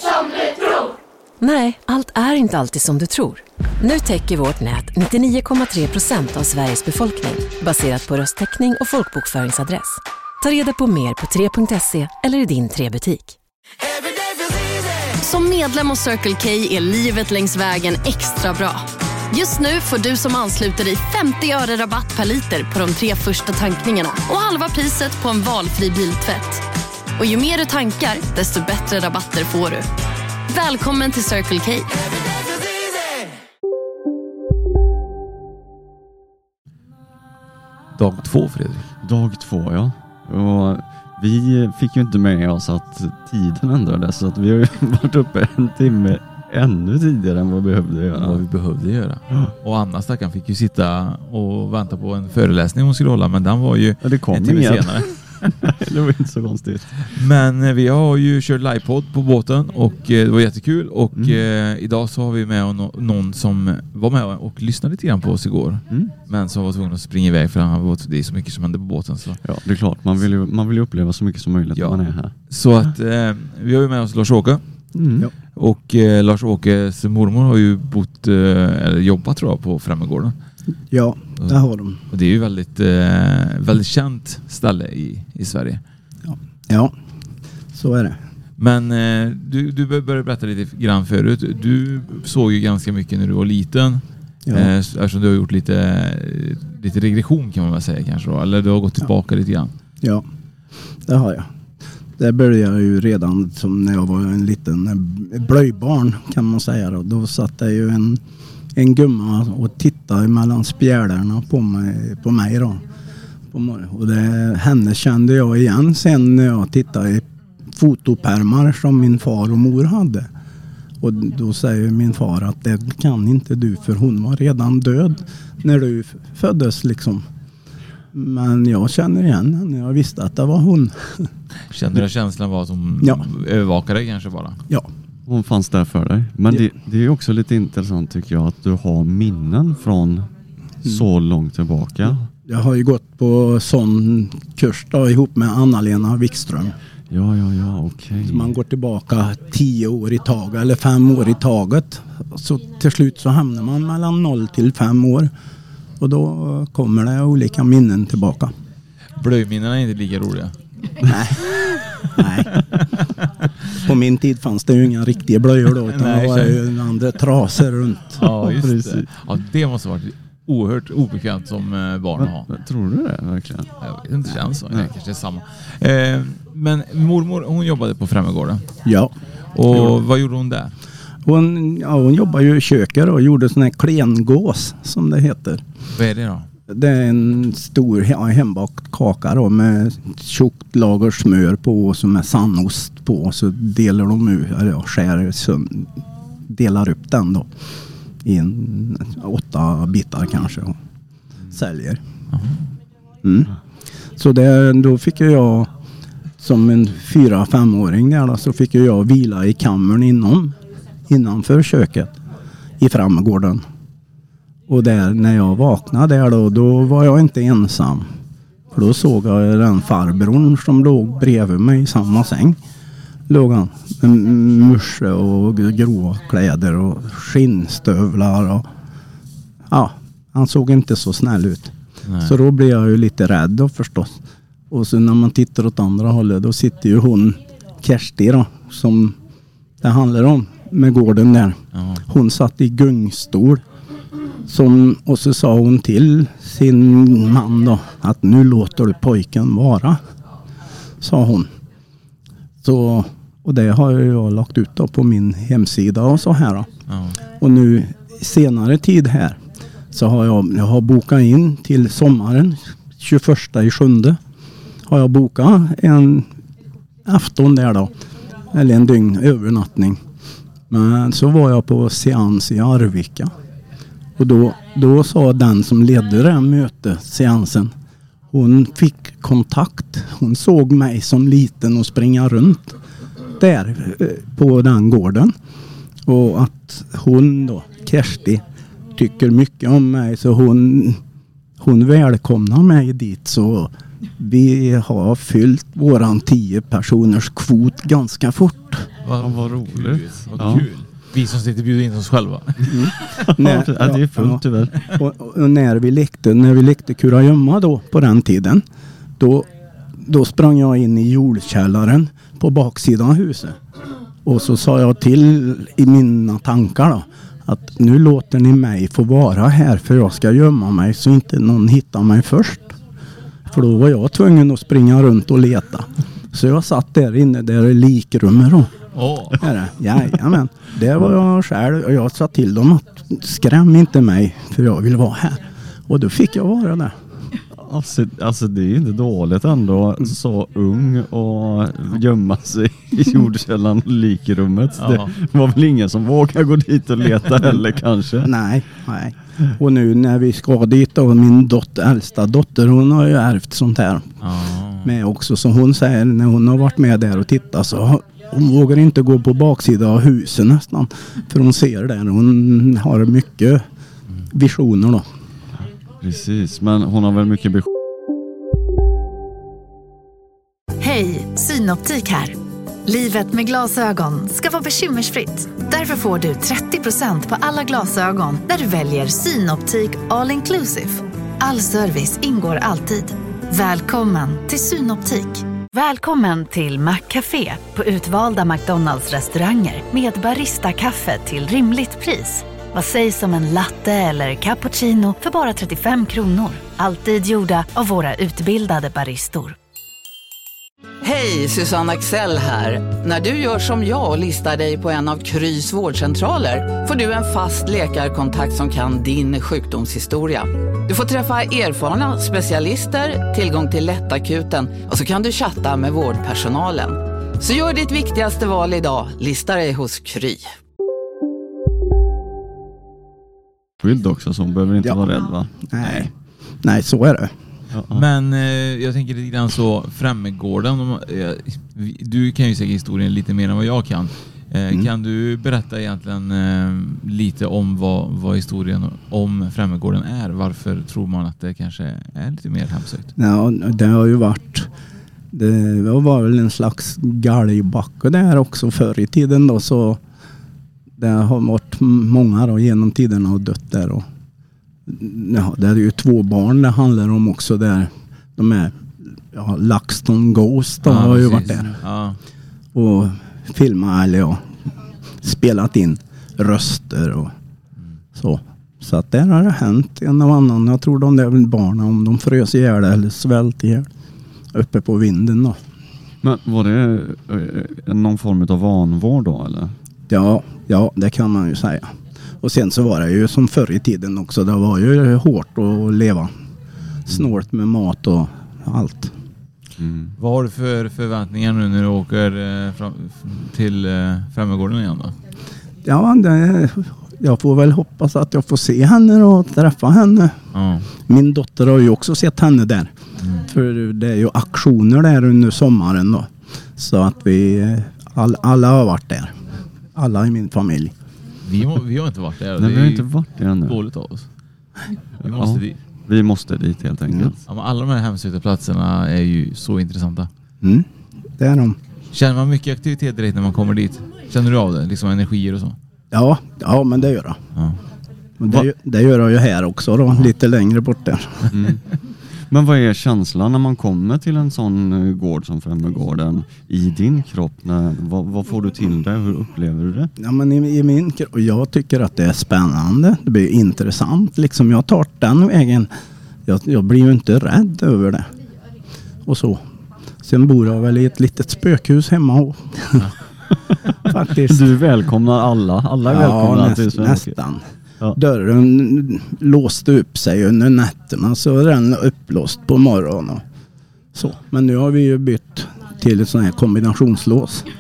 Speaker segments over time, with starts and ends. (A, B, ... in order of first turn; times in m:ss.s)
0:01.4-0:13.4 A
0:15.2-0:26.6 B
0:27.2-0:29.9 B
0:30.5-0:32.0 B
0:38.0-0:38.8 C
0:39.0-0:48.4 D
0:48.2-0:55.5 C
0:54.0-0:55.1 D
0:55.6-0:56.9 D
0:57.0-1:09.4 C
1:09.4-1:12.3 D
1:11.8-1:14.6 C
1:15.0-1:15.3 D
1:15.6-1:20.3 C
1:20.9-1:22.0 E
1:22.1-1:25.8 C
1:26.3-1:26.9 E
1:27.7-1:28.2 E
1:28.6-1:39.7 C
1:34.5-1:34.7 E
1:41.1-1:41.5 E
1:42.2-1:48.2 E
1:48.8-1:52.8 E
1:53.5-1:57.2 E
1:57.8-2:00.3 E
2:01.0-2:07.2 E
2:08.1-2:11.3 E
2:11.7-2:14.6 C
2:15.3-2:20.3 D
2:20.9-2:22.3 D
2:22.5-2:26.8 E
2:27.1-2:28.4 D
2:28.3-2:35.3 E
2:36.0-2:38.5 E
2:39.2-2:43.1 C
2:41.1-2:41.4 E
2:42.2-2:42.5 E
2:43.8-2:48.2 E
2:45.7-2:46.7 C
2:48.2-2:52.5 C
2:48.4-2:49.1 D
2:52.2-2:53.7 D
2:53.8-2:58.6 C
2:58.8-2:59.1 E
2:59.5-3:00.7 C
3:01.2-3:05.6 E
3:05.9-3:06.5 C
3:06.7-3:15.9 E
3:16.5-3:17.5 E
3:18.2-3:20.8 E
3:21.5-3:22.0 E
3:22.3-3:22.6 C
3:23.2-3:23.5 E
3:24.2-3:25.7 E
3:26.4-3:30.6 E
3:31.1-3:32.2 E
3:32.8-3:33.6 E
3:34.7-3:38.1 E
3:38.7-3:42.6 E
3:43.3-3:48.7 E
3:49.7-3:54.2 E
3:52.0-3:52.4 C
3:54.7-3:59.2 E
3:59.8-4:03.6 E
4:01.7-4:02.0 C
4:04.5-4:10.0 E
4:11.0-4:11.5 E
4:12.6-4:16.7 E
4:16.9-4:17.2 C
4:17.4-4:19.4 E
4:19.9-4:24.2 E
4:24.9-4:26.3 E
4:27.0-4:27.9 E
4:28.5-4:30.0 E
4:30.7-4:33.3 E
4:34.2-4:37.7 E
4:38.3-4:42.8 E
4:43.4-4:45.3 E
4:46.1-4:48.4 E
4:49.0-4:51.0 E
4:51.6-4:58.9 E
4:59.0-5:03.4 C
4:59.2-5:00.6 D
5:02.7-5:08.6 E
5:03.3-5:04.9 D
5:09.2-5:09.5 E
5:10.0-5:13.6 E
5:14.2-5:22.8 E
5:23.5-5:28.7 E
5:28.9-5:29.4 C
5:29.4-5:37.0 E
5:37.6-5:48.3 D
5:44.8-5:45.1 C
5:48.2-5:54.1 E
5:54.2-5:54.9 C
5:54.8-6:03.6 E
6:04.3-6:05.0 E
6:06.0-6:07.7 D
6:10.8-6:39.6 F
6:41.0-7:00.6 G
7:03.8-7:06.1 D
7:05.7-7:06.1 E
7:06.6-7:07.3 E
7:07.7-7:08.0 D
7:07.9-7:23.1 C
7:23.2-7:24.7 E
7:25.3-7:30.0 E
7:31.0-7:34.0 E
7:34.9-7:41.8 E
7:40.8-7:42.2 C
7:42.7-7:44.4 E
7:45.2-7:47.3 E
7:48.2-7:53.9 E
7:54.5-7:55.6 E
7:56.2-7:59.8 D
8:00.1-8:06.3 E
8:07.1-8:09.1 E
8:09.8-8:10.1 D
8:10.2-8:15.2 C
8:15.8-8:20.4 E
8:20.5-8:20.9 C
8:21.1-8:22.9 E
8:23.5-8:29.3 E
8:30.0-8:30.9 E
8:31.4-8:33.1 C
8:32.6-8:33.7 D
8:33.6-8:34.3 C
8:35.2-8:35.8 C
8:35.3-8:37.3 D
8:37.5-8:40.3 C
8:41.4-8:41.8 E
8:42.1-8:45.8 C
8:46.1-8:47.4 E
8:48.4-8:51.5 E
8:51.5-8:51.9 D
8:52.5-9:00.1 D
9:00.2-9:05.9 E
9:06.5-9:08.3 E
9:09.3-9:09.6 E
9:10.2-9:13.1 E
9:14.1-9:14.7 E
9:14.4-9:17.3 D
9:16.0-9:17.6 E
9:18.2-9:23.4 E
9:24.2-9:27.7 E